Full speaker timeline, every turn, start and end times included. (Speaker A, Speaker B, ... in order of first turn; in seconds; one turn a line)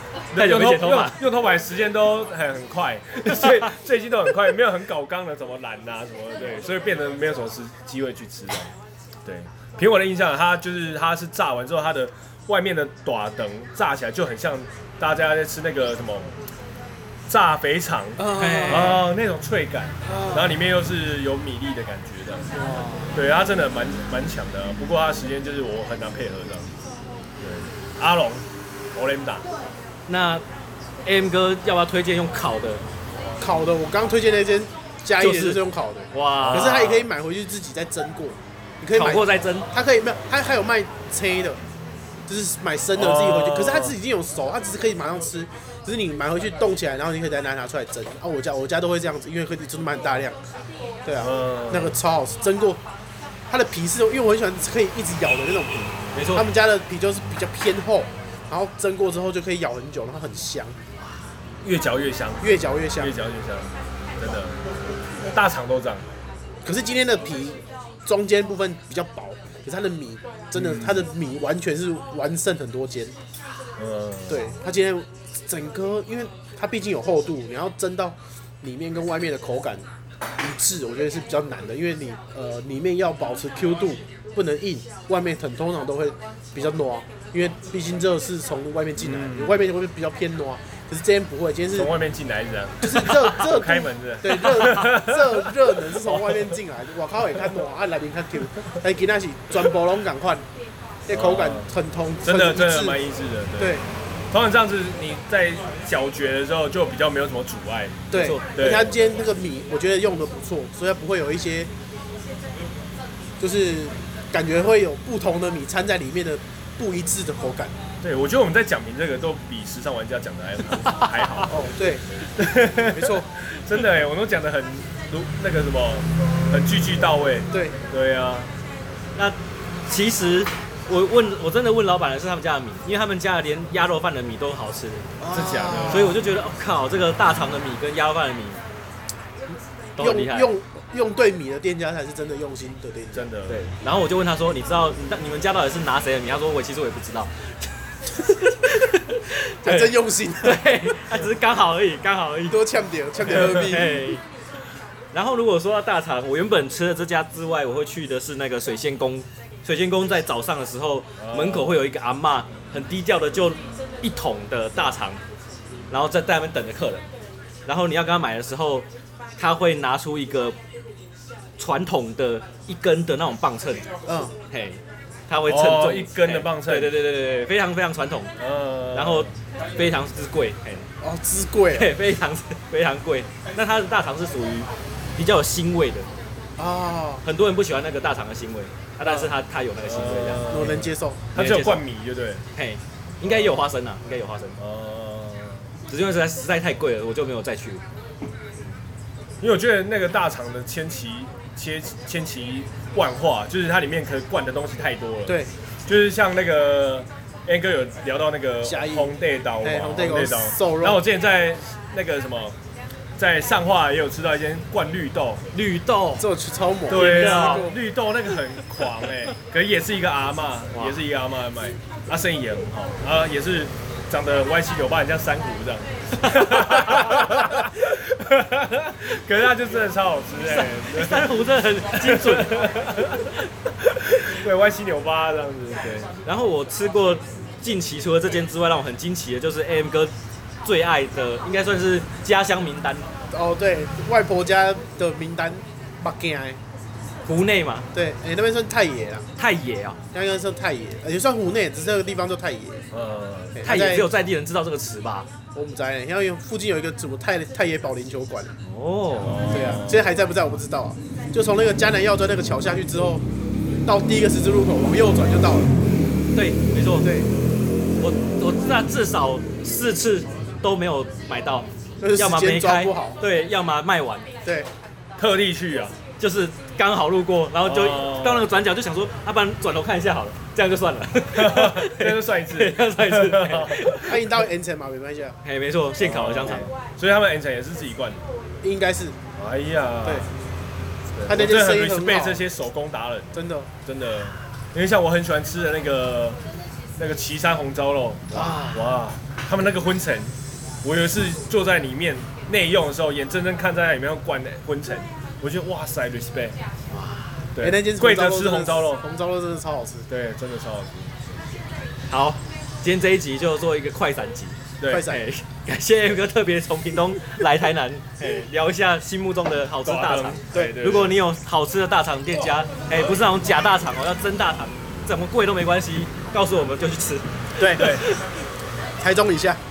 Speaker A: 0.3-1.2
Speaker B: 0.3-8.7
Speaker A: 3.3-3.6
Speaker B: 9.3-16.3
Speaker B: 17.3-22.5
Speaker C: 18.2-18.9
Speaker A: 18.4-19.0
Speaker C: 20.1-20.6
Speaker C: 22.5-23.1
Speaker B: 23.1-26.7
Speaker B: 27.4-29.5
Speaker A: 30.1-30.4
Speaker A: 31.1-32.8
Speaker C: 33.4-41.6
Speaker A: 35.2-35.6
Speaker A: 36.1-37.1
Speaker B: 36.4-36.9
Speaker A: 38.9-39.7
Speaker C: 42.3-50.4
Speaker B: 43.0-44.0
Speaker C: 51.0-52.8
Speaker B: 51.2-52.0
Speaker C: 53.5-60.8
Speaker A: 56.1-56.5
Speaker B: 61.6-64.6
Speaker C: 62.4-63.1
Speaker B: 65.2-66.1
Speaker C: 66.6-73.2
Speaker B: 70.5-71.1
Speaker B: 73.8-74.5
Speaker C: 74.3-79.9
Speaker C: 80.4-91.9
Speaker B: 89.0-89.6
Speaker B: 91.8-96.4
Speaker C: 92.8-100.5
Speaker C: 101.1-103.0
Speaker B: 101.1-101.7
Speaker B: 102.2-108.0
Speaker C: 103.6-103.8
Speaker C: 108.1-111.7
Speaker A: 108.1-108.4
Speaker B: 108.5-109.0
Speaker C: 113.4-117.8
Speaker B: 118.0-121.7
Speaker C: 121.5-122.0
Speaker B: 122.4-128.5
Speaker C: 122.8-123.3
Speaker A: 129.2-135.1
Speaker C: 135.2-136.2
Speaker B: 135.3-136.2
Speaker A: 135.9-138.6
Speaker A: 140.0-140.5
Speaker C: 140.0-143.3
Speaker B: 143.1-143.6
Speaker A: 143.5-147.5
Speaker A: 148.1-152.6
Speaker C: 149.6-150.6
Speaker C: 152.5-154.2
Speaker A: 153.2-154.2
Speaker A: 155.1-165.2
Speaker B: 161.2-161.8
Speaker A: 165.9-167.1
Speaker A: 167.7-170.6
Speaker A: 171.6-173.9
Speaker C: 174.1-174.3
Speaker A: 174.5-178.3
Speaker B: 175.5-177.0
Speaker B: 178.4-179.3
Speaker A: 178.9-180.9
Speaker C: 181.0-181.9
Speaker A: 181.7-186.1
Speaker C: 186.6-187.2
Speaker A: 187.2-190.7
Speaker C: 189.0-189.3
Speaker B: 189.8-192.4
Speaker C: 190.5-191.3
Speaker A: 191.3-191.8
Speaker A: 192.6-194.6
Speaker B: 193.2-193.5
Speaker B: 194.6-195.7
Speaker A: 195.9-197.8
Speaker B: 199.4-212.6
Speaker C: 205.3-205.5
Speaker C: 208.6-211.0
Speaker B: 213.2-215.4
Speaker A: 215.5-216.2
Speaker C: 216.2-217.8
Speaker B: 216.9-231.3
Speaker A: 216.9-217.7
Speaker A: 220.7-221.0
Speaker A: 226.2-227.2
Speaker A: 230.5-232.7
Speaker B: 232.0-233.3
Speaker B: 233.9-236.1
Speaker A: 236.2-240.1
Speaker A: 240.6-243.1
Speaker C: 243.3-246.6
Speaker A: 247.3-247.9
Speaker C: 247.9-249.3
Speaker A: 249.4-250.0
Speaker C: 250.1-252.8
Speaker B: 252.9-253.6
Speaker C: 253.6-254.1
Speaker A: 253.6-255.3
Speaker C: 255.5-258.6
Speaker A: 258.6-259.6
Speaker B: 259.2-260.1
Speaker C: 259.5-263.2
Speaker C: 263.9-265.7
Speaker A: 266.3-267.1
Speaker C: 267.0-267.3
Speaker A: 268.0-274.3
Speaker C: 272.0-273.2
Speaker C: 274.4-274.7
Speaker B: 275.2-276.0
Speaker A: 276.2-284.2
Speaker B: 277.6-278.5
Speaker B: 281.3-284.1
Speaker C: 284.1-285.4
Speaker A: 285.4-286.7
Speaker B: 286.0-288.2
Speaker C: 288.6-289.2
Speaker B: 289.4-290.3
Speaker B: 291.2-296.4
Speaker C: 291.2-292.4
Speaker C: 293.3-293.7
Speaker B: 297.0-306.6
Speaker C: 298.3-298.9
Speaker B: 307.6-309.0
Speaker C: 307.6-310.1
Speaker B: 310.1-311.4
Speaker A: 312.1-328.2
Speaker B: 314.8-315.1
Speaker C: 314.9-315.2
Speaker B: 319.9-321.2
Speaker C: 320.5-320.8
Speaker C: 327.6-327.9
Speaker B: 327.7-328.1
Speaker C: 329.0-329.6